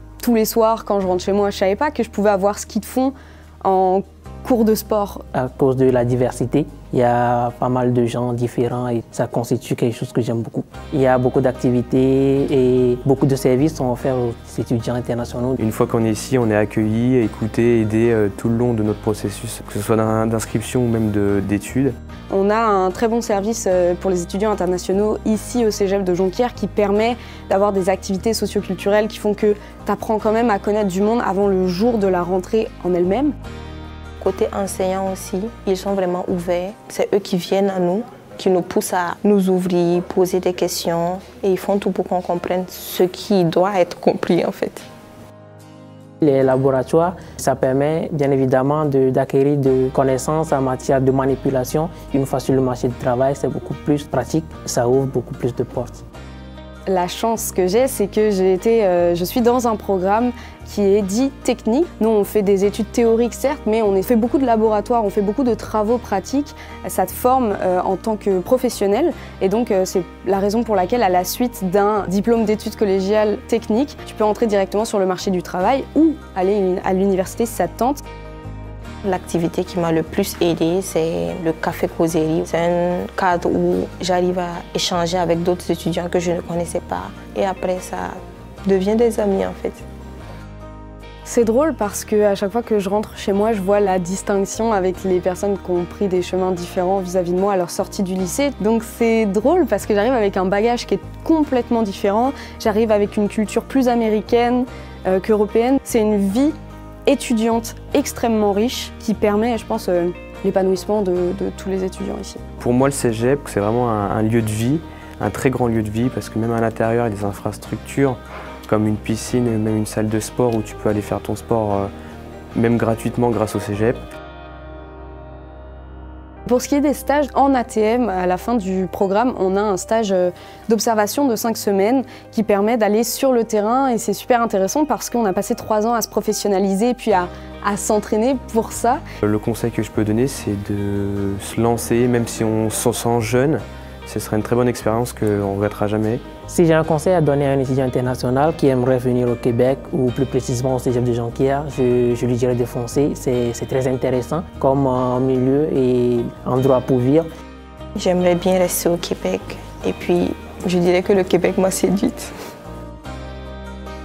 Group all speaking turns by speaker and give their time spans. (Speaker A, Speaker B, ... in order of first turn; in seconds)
Speaker A: 0.2-5.2, 22.3-33.4, 56.9-78.0, 91.2-106.5, 107.1-112.4, 126.5-139.0
Speaker B: 5.3-15.6, 46.2-56.0, 146.5-157.3
Speaker C: 15.6-22.0, 112.6-121.9, 122.5-124.0, 139.2-146.2
Speaker D: 34.2-44.9, 79.0-89.8, 157.9-162.3